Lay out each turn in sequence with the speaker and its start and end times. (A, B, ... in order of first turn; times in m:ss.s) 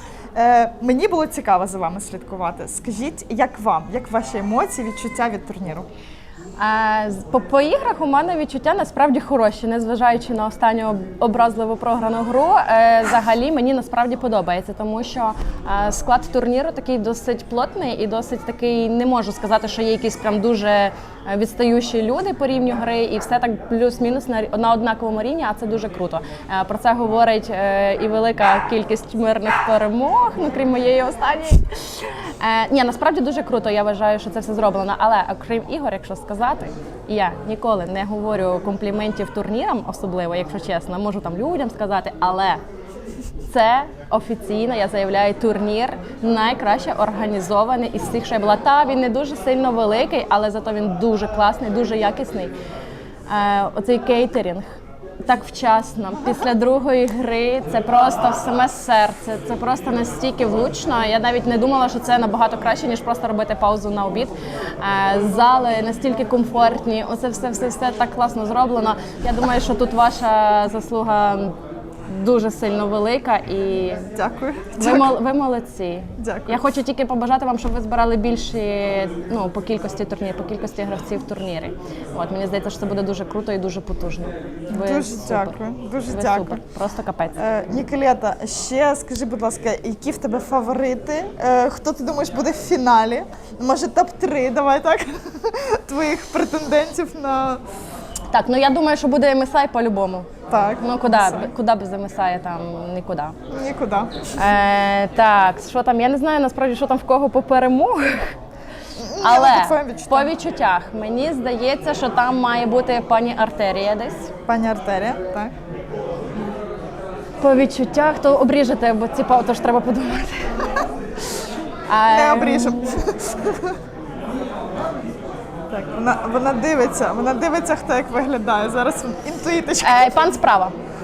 0:00.4-0:05.9 A
0:06.6-0:42.6 B
0:43.5-0:52.5 B
0:53.3-0:54.6 B
0:55.2-1:11.5 B
1:12.1-1:14.0 B
1:14.2-1:15.2 A
1:14.8-1:27.4 B
1:16.2-1:16.7 A
1:24.7-1:26.6 A
1:27.4-1:37.6 A
1:38.3-1:40.3 B
1:40.5-1:41.5 A
1:40.8-1:43.4 B
1:43.5-1:44.4 A
1:44.4-1:48.4 B
1:49.0-1:50.3 A
1:49.2-1:54.3 B
1:54.5-1:55.5 A
1:57.4-2:00.5 B
2:01.9-2:02.9 B
2:02.1-2:03.7 A
2:05.7-2:10.4 A
2:09.8-2:10.8 B